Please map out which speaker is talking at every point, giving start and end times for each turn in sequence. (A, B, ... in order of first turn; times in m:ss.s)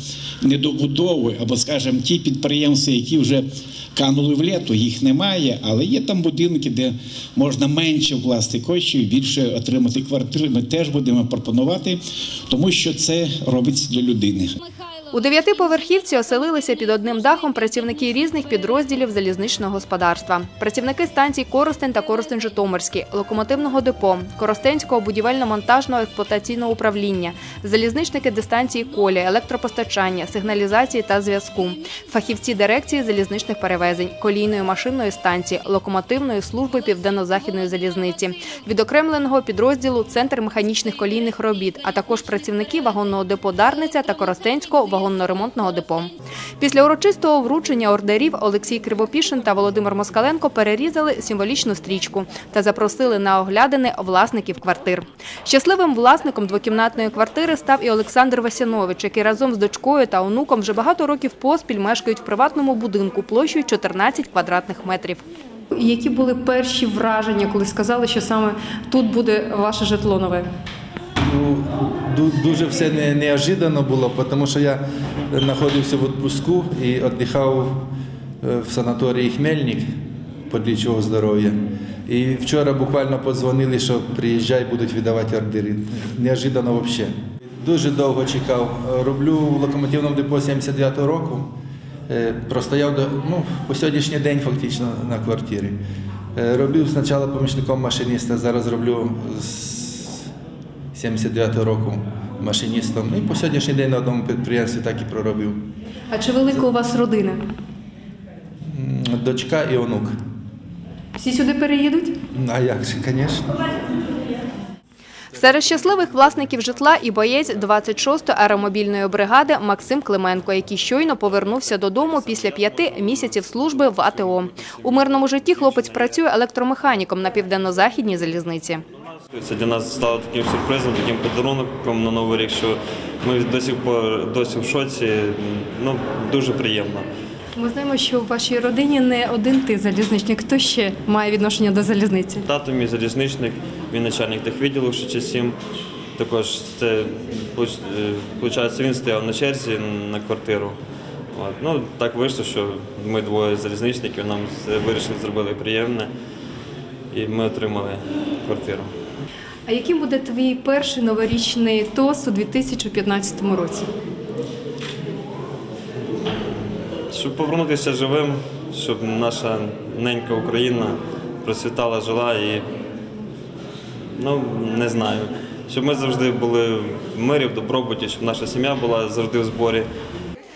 0:00.4-0:14.5 A
0:15.1-1:05.2 B
1:05.7-1:10.4 C
1:11.2-1:17.9 D
1:18.4-1:19.9 D
1:20.5-1:31.5 D
1:32.1-1:35.8 D
1:36.3-1:40.2 D
1:40.9-1:45.7 D
1:46.1-1:47.4 C
1:48.6-1:50.1 D
1:51.2-1:52.1 C
1:52.3-1:53.6 D
1:55.3-2:08.8 B
2:01.5-2:05.9 E
2:09.3-2:17.0 E
2:17.6-2:22.4 C
2:22.4-2:25.6 E
2:26.2-2:30.8 E
2:31.3-2:36.1 E
2:37.1-2:38.9 E
2:39.7-2:43.9 C
2:47.1-2:52.7 E
2:54.2-2:59.9 E